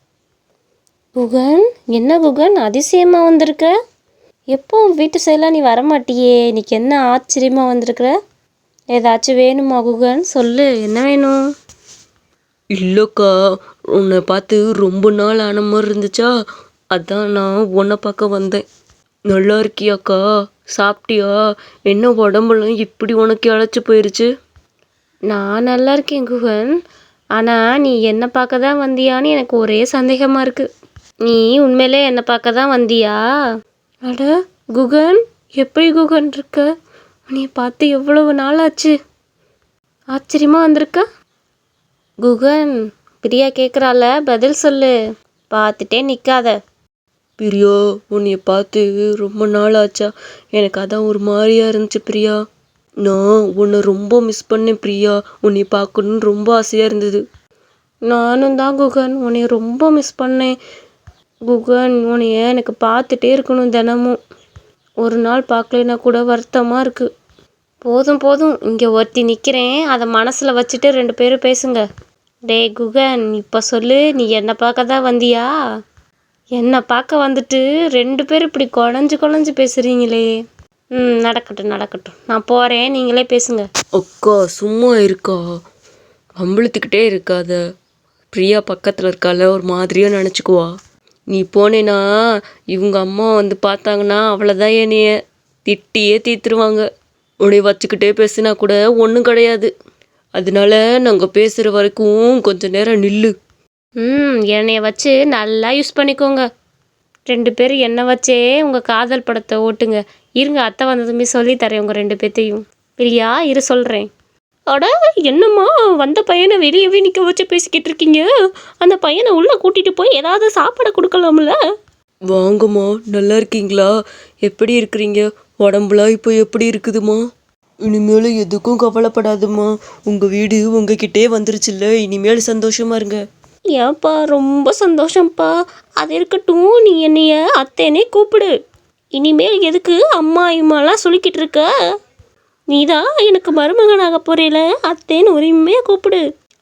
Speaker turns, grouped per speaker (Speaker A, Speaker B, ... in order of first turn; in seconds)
Speaker A: 1.2-3.7, 4.5-8.1, 8.9-11.4, 25.3-26.7, 27.4-30.7, 31.3-33.2, 34.1-36.7, 37.3-38.9, 40.1-41.0, 42.2-44.9, 45.5-46.5, 58.1-60.5, 61.5-64.2, 65.0-67.1, 67.8-71.8, 72.5-75.5, 76.6-80.3, 81.0-83.7, 104.0-106.4, 107.3-114.1, 114.7-118.3, 118.8-121.6, 133.7-138.5, 139.2-141.7, 142.7-146.2
Speaker B: 12.8-13.3, 13.9-16.3, 16.9-18.6, 19.3-20.2, 20.8-21.3, 21.9-24.3, 47.4-52.4, 53.0-57.2, 84.0-85.4, 86.4-87.6, 88.3-90.7, 91.3-92.0, 92.7-95.1, 95.7-96.8, 97.4-99.7, 100.3-103.3, 122.3-123.9, 124.4-127.2, 127.8-133.2